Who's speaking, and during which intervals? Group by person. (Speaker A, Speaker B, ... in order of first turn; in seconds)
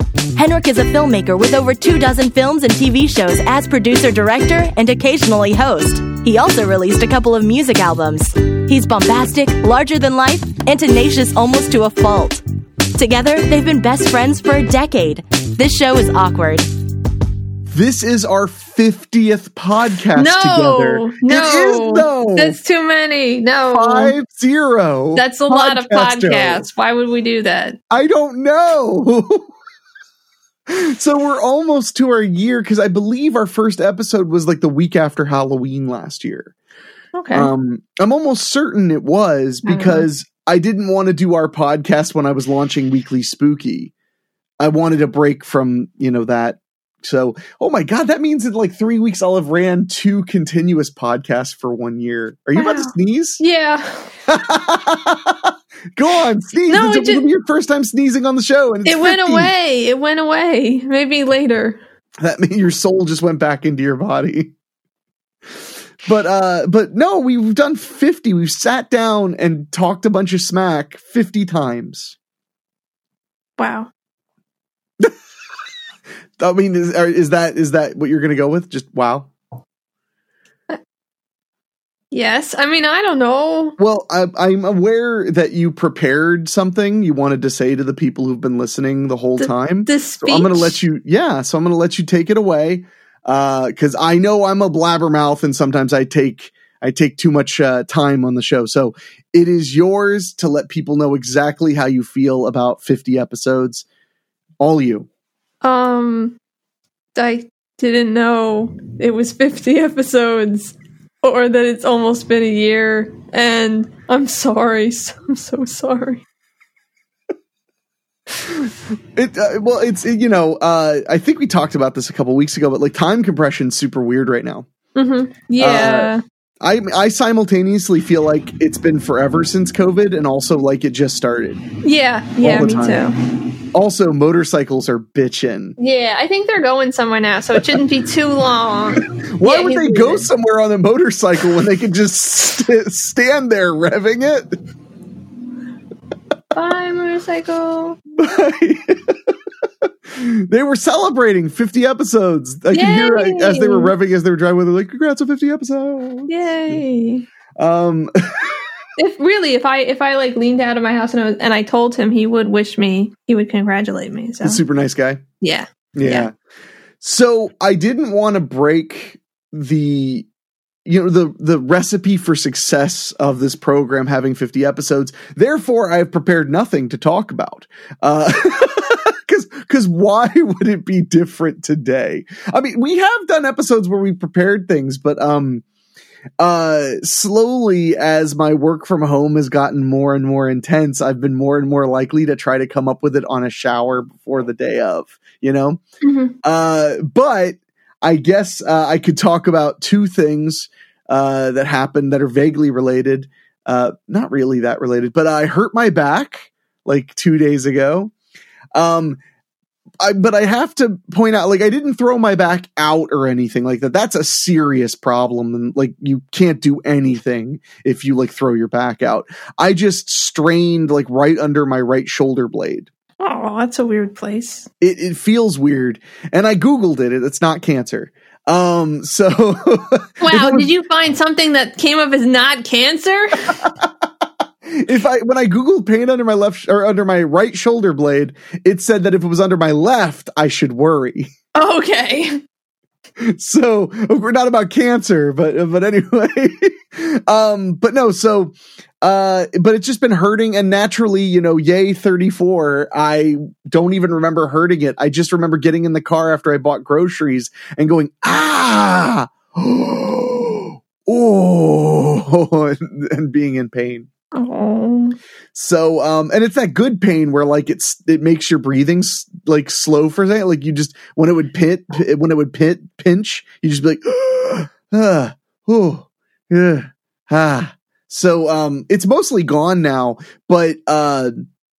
Speaker A: 0.3-12.4, 12.9-16.7
Speaker B: 17.7-22.6, 23.7-26.6, 27.9-29.5, 30.7-36.5, 37.3-43.9, 44.6-53.4, 54.3-59.5, 62.2-64.5, 66.0-72.1, 76.4-79.3, 83.8-103.8, 104.6-105.1, 118.5-124.7, 125.6-131.6, 132.4-133.1, 133.7-135.8, 139.2-144.5, 148.2-156.8, 157.6-158.6, 164.4-165.2, 165.9-166.3, 167.0-170.3, 170.8-185.6, 186.4-195.8, 196.4-208.1, 208.7-209.2, 210.0-222.9, 224.8-230.7, 234.7-241.3, 243.2-264.1, 265.5-281.3
Speaker C: 20.1-24.1, 25.1-27.8, 37.1-37.5, 39.6-40.0, 52.5-54.1, 56.7-57.2, 58.8-61.8, 73.6-73.9, 82.1-83.8, 89.4-90.8, 105.6-106.4, 107.1-116.2, 125.0-126.2, 131.8-133.1, 135.8-140.3, 146.5-148.0, 152.7-153.9, 156.3-157.2, 159.0-164.6, 165.4-166.3, 196.0-196.3, 223.2-224.7, 230.2-233.6, 241.5-242.4, 264.3-265.2